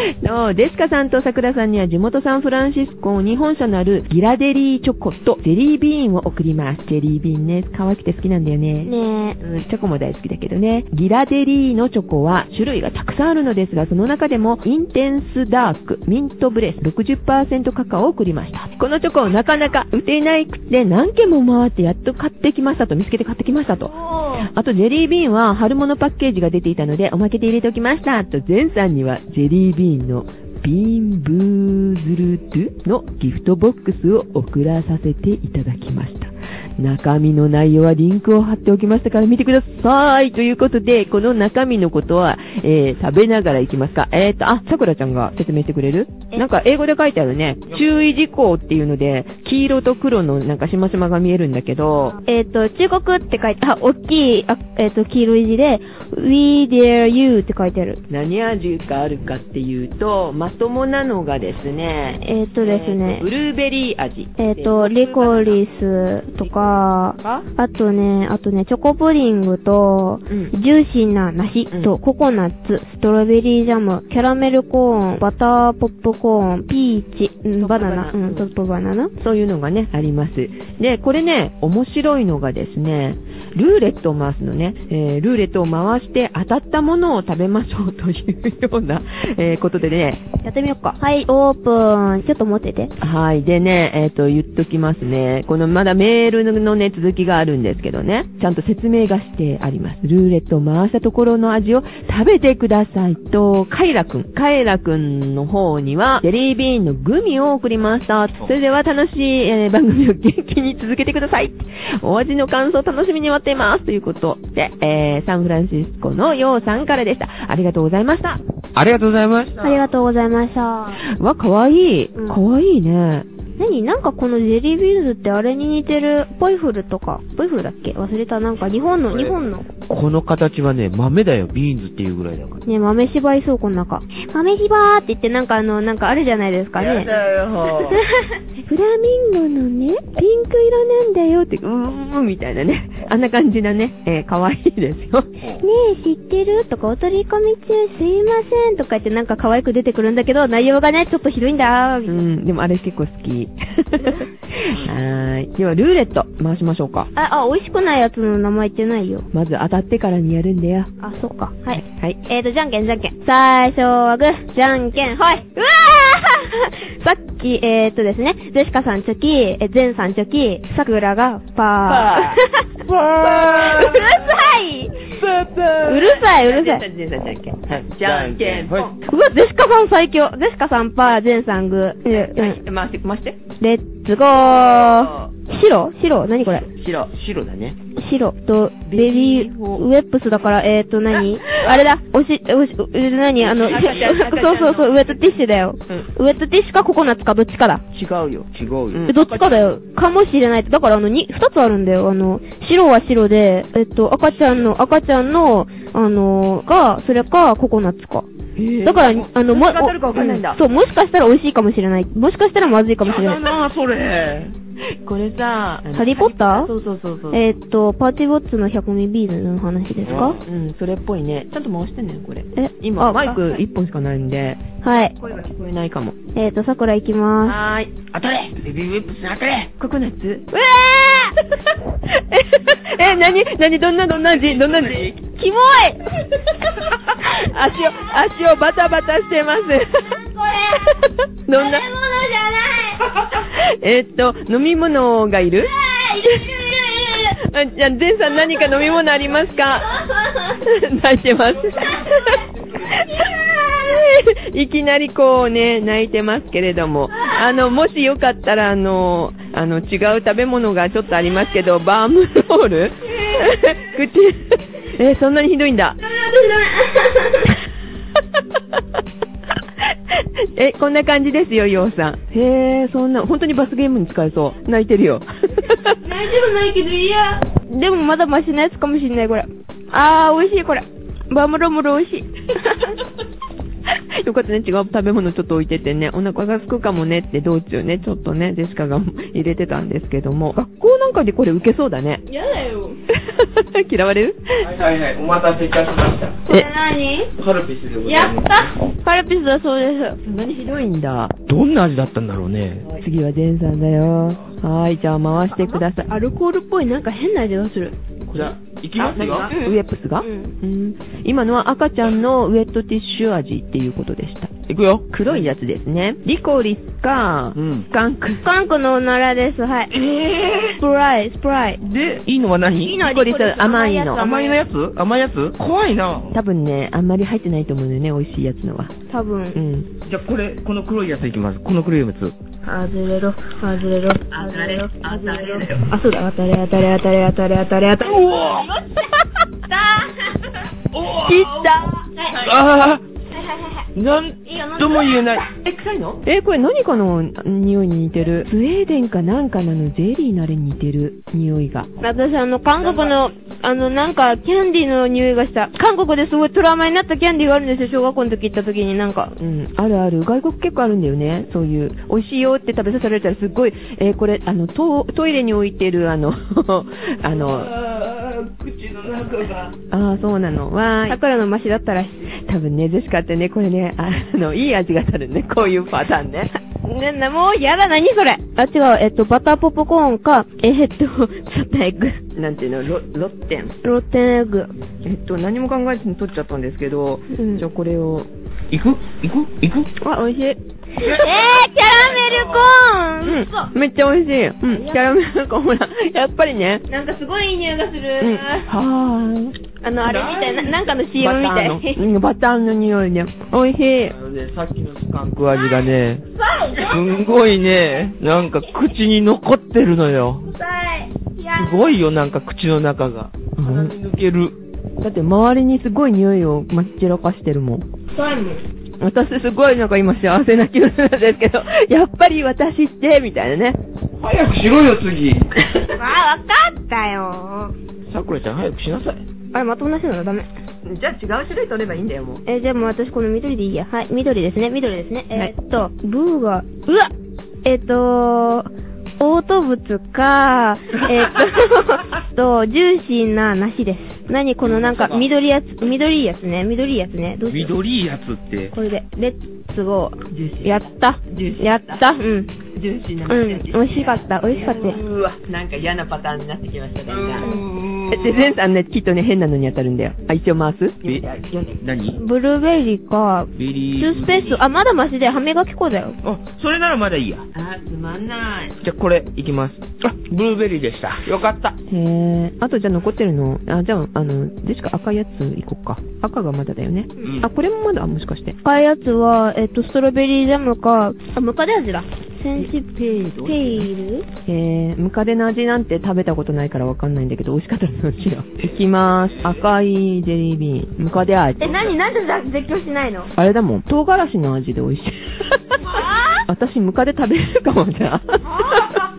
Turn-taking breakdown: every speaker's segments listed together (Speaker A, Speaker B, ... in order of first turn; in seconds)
Speaker A: 0.2-52.2, 58.1-65.6, 66.4-67.5, 77.6-78.5, 79.2-90.2, 93.0-118.4, 121.0-123.3, 137.0-138.0, 138.7-145.3, 152.1-157.1, 159.3-160.9, 161.7-162.2, 171.8-172.4, 173.2-173.9, 175.8-178.9, 182.1-183.4, 184.4-185.3, 186.8-187.7, 188.9-189.8, 193.4-195.2, 198.9-199.3, 208.6-210.6, 215.0-217.4, 220.1-224.6, 225.2-226.2, 227.4-228.0, 229.8-230.5, 232.1-235.2, 237.2-240.2, 241.5-241.9, 243.4-245.7, 247.3-249.9, 250.6-266.0, 270.6-276.0, 284.2-292.2, 293.1-294.6, 300.2-301.3, 303.0-306.1, 308.3-314.5, 315.1-318.4, 323.0-324.2, 326.3-328.9, 329.6-329.9, 334.3-335.9, 341.2-342.0, 345.6-351.9, 359.4-367.7, 369.9-371.2, 372.4-376.5, 382.4-383.8, 385.1-388.3, 390.0-390.6, 393.2-396.8, 398.2-399.6, 401.2-404.1, 413.6-413.9, 415.0-417.9, 419.0-423.8, 430.9-432.4, 450.3-452.1, 452.8-457.5, 458.1-461.8, 467.6-468.8, 471.9-478.6, 482.6-483.9, 484.5-491.9, 493.4-495.8, 496.5-499.0
Speaker B: 8.8-9.4, 23.9-24.5, 52.2-58.0, 62.2-63.3, 64.4-79.1, 90.4-92.9, 119.6-121.0, 122.2-122.4, 123.6-129.7, 132.7-137.1, 137.8-138.4, 145.6-152.1, 157.2-159.3, 161.0-172.7, 173.4-174.9, 175.9-176.8, 179.0-182.6, 183.6-186.7, 188.0-197.8, 199.1-208.3, 208.8-213.5, 215.9-216.7, 217.3-220.4, 222.6-223.6, 224.8-225.1, 226.3-227.6, 230.5-231.4, 235.2-236.8, 240.0-241.0, 241.5-243.1, 245.6-247.3, 248.6-248.8, 249.7-250.6, 253.0-254.0, 266.0-267.5, 276.0-283.0, 292.3-293.0, 296.5-297.3, 298.0-300.2, 305.5-307.9, 309.3-309.5, 310.2-310.5, 318.4-319.9, 320.8-321.8, 322.8-324.6, 329.1-329.6, 332.6-339.1, 339.7-340.3, 342.2-342.4, 343.4-343.8, 344.5-345.4, 352.0-359.4, 371.1-372.3, 376.8-382.2, 383.8-384.7, 387.3-387.6, 391.0-393.7, 394.7-395.1, 396.9-398.7, 399.8-402.1, 405.8-407.2, 410.4-412.0, 418.1-418.6, 426.0-427.7, 429.5-430.5, 432.5-437.1, 437.6-438.7, 439.2-447.7, 448.7-452.5, 453.3-455.0, 462.2-466.2, 478.6-482.9, 483.4-484.3, 491.6-493.3, 495.9-496.4
Speaker C: 118.8-119.9, 129.1-129.3, 129.9-132.6, 136.8-138.0, 172.9-174.1, 175.2-175.8, 177.7-178.9, 187.1-187.8, 197.9-199.7, 213.0-214.5, 220.0-220.4, 228.1-229.7, 294.6-296.4, 297.4-298.7, 301.5-303.0, 308.3-309.7, 314.7-315.5, 317.6-317.9, 319.9-320.8, 321.8-323.0, 324.1-326.4, 330.1-332.4, 338.0-338.7, 340.9-341.7, 342.3-343.0, 344.0-345.5, 367.3-369.7, 388.7-389.9, 391.0-392.8, 400.0-400.9, 404.1-410.5, 411.6-414.5, 424.2-425.8, 428.1-429.2, 444.6-445.3, 447.5-448.7, 454.7-455.3, 457.1-458.5, 461.8-462.2, 463.6-464.6, 466.2-467.4, 468.8-471.8, 477.2-477.5